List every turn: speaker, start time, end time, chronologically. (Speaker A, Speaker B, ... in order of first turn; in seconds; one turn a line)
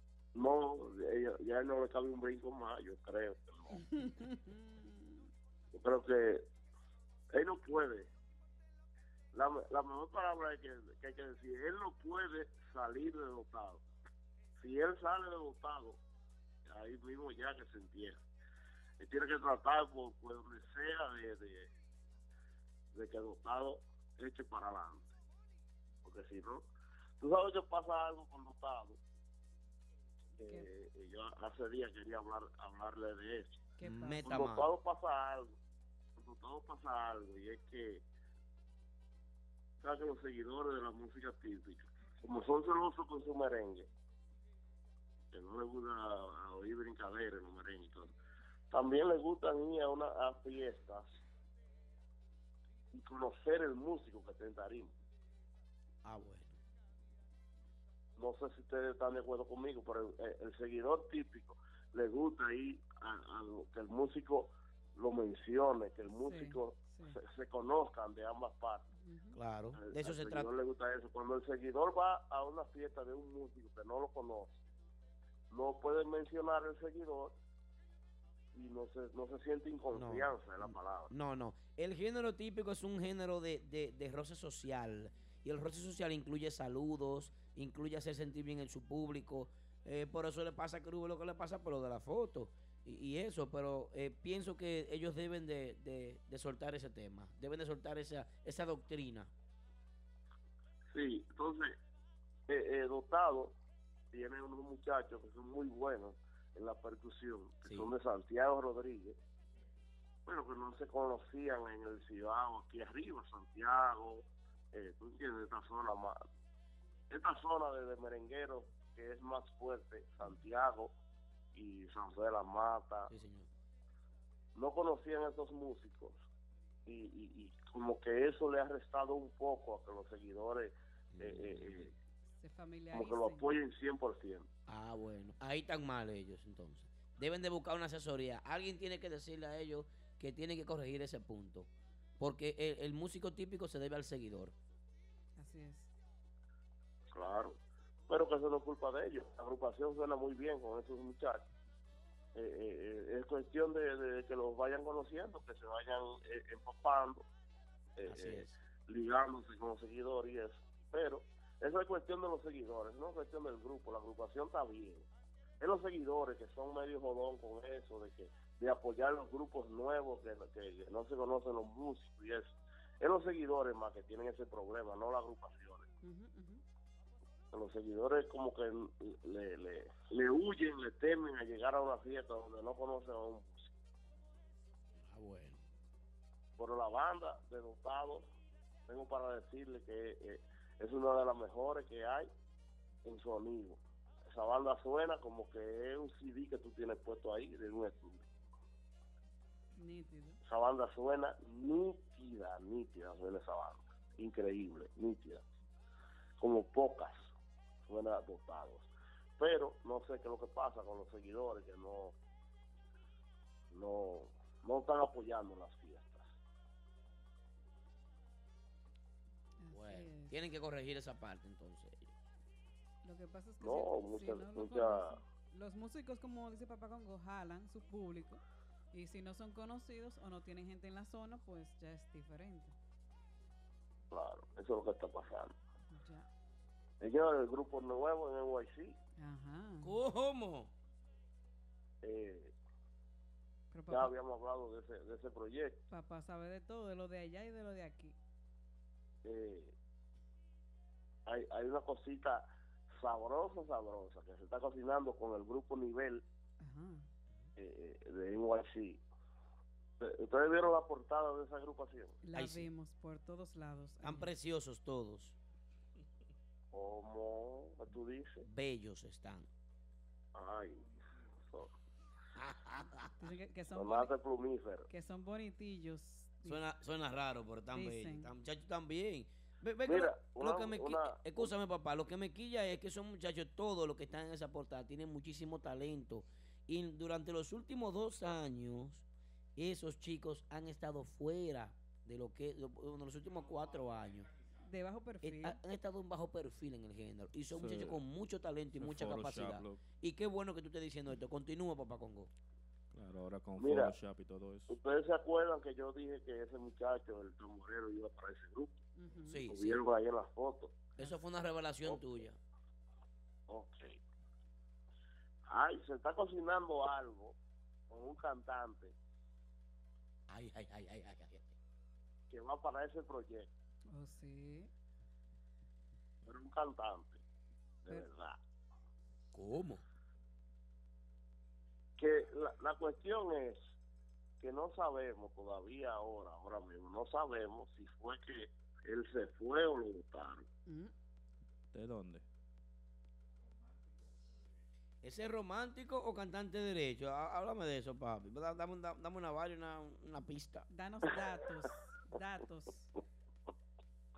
Speaker A: 0.3-3.8
Speaker B: 3.7-5.3
Speaker A: 5.7-6.5
Speaker A: 7.3-8.1
Speaker A: 9.3-13.8
Speaker A: 14.6-16.0
Speaker A: 16.6-18.2
Speaker A: 19.0-21.7
Speaker A: 22.9-25.1
Speaker A: 26.0-26.7
Speaker A: 27.2-29.0
Speaker A: 30.4-33.6
Speaker B: 33.8-34.4
Speaker C: 33.8-34.7
Speaker A: 34.2-35.5
Speaker A: 36.2-38.0
Speaker A: 39.8-43.9
Speaker A: 45.3-48.1
Speaker A: 48.7-51.0
Speaker A: 52.9-54.9
Speaker C: 56.0-56.6
Speaker A: 58.2-68.8
Speaker B: 66.2-67.2
Speaker B: 69.0-69.4
Speaker C: 69.3-70.5
Speaker A: 69.7-74.6
Speaker A: 75.5-77.3
Speaker A: 78.5-81.1
Speaker C: 79.9-99.3
Speaker A: 100.9-101.7
Speaker A: 102.5-103.5
Speaker A: 104.1-109.2
Speaker C: 107.6-107.9
Speaker A: 110.2-116.2
Speaker A: 117.1-120.9
Speaker A: 121.5-123.1
Speaker C: 123.1-123.5
Speaker A: 124.5-126.2
Speaker A: 126.8-131.9
Speaker C: 131.1-131.9
Speaker B: 132.4-133.5
Speaker A: 132.9-134.5
Speaker C: 134.7-144.5
Speaker B: 145.4-145.9
Speaker A: 147.1-147.6
Speaker A: 148.1-151.4
Speaker A: 152.3-157.3
Speaker A: 157.9-165.1
Speaker C: 158.1-158.6
Speaker A: 165.6-175.9
Speaker B: 176.0-176.6
Speaker A: 177.5-183.7
Speaker C: 185.0-185.6
Speaker A: 186.6-188.3
Speaker A: 188.9-192.3
Speaker A: 193.0-198.3
Speaker B: 199.8-200.4
Speaker A: 200.4-205.4
Speaker A: 206.4-207.3
Speaker A: 207.9-212.1
Speaker A: 213.7-216.3
Speaker B: 219.6-220.4
Speaker C: 219.7-222.1
Speaker B: 223.0-228.4
Speaker A: 223.6-225.2
Speaker B: 228.9-232.7
Speaker A: 234.1-235.5
Speaker B: 235.9-236.3
Speaker A: 237.0-239.0
Speaker B: 239.2-239.9
Speaker C: 239.8-240.7
Speaker A: 242.0-242.5
Speaker B: 243.7-244.1
Speaker A: 243.9-245.8
Speaker B: 245.9-248.2
Speaker A: 249.2-249.7
Speaker A: 251.3-252.4
Speaker A: 253.0-256.2
Speaker B: 256.6-257.1
Speaker A: 257.6-259.0
Speaker A: 260.0-262.2
Speaker B: 262.2-264.3
Speaker C: 262.3-262.7
Speaker C: 264.0-265.4
Speaker A: 266.7-268.4
Speaker C: 268.4-269.5
Speaker A: 270.3-271.7
Speaker C: 272.4-273.1
Speaker B: 273.2-274.1
Speaker A: 273.7-274.9
Speaker B: 274.9-276.6
Speaker C: 276.4-289.0
Speaker B: 277.7-278.3
Speaker A: 279.8-281.5
Speaker C: 289.6-294.3
Speaker B: 294.6-295.6
Speaker C: 295.2-302.3
Speaker D: 297.5-298.0
Speaker D: 298.8-299.8
Speaker D: 302.9-304.8
Speaker A: 303.6-303.9
Speaker A: 304.7-308.8
Speaker B: 308.9-309.4
Speaker C: 309.3-309.8
Speaker A: 309.5-310.9
Speaker C: 311.0-312.4
Speaker A: 311.8-312.2
Speaker A: 313.5-313.9
Speaker A: 315.5-317.4
Speaker A: 317.9-318.9
Speaker C: 320.3-321.5
Speaker A: 322.3-323.5
Speaker B: 323.9-324.7
Speaker A: 326.2-327.2
Speaker A: 327.8-328.4
Speaker C: 329.3-329.8
Speaker A: 332.0-333.6
Speaker A: 334.4-340.4
Speaker B: 340.7-340.9
Speaker D: 341.7-342.2
Speaker C: 345.0-350.6
Speaker B: 350.7-352.9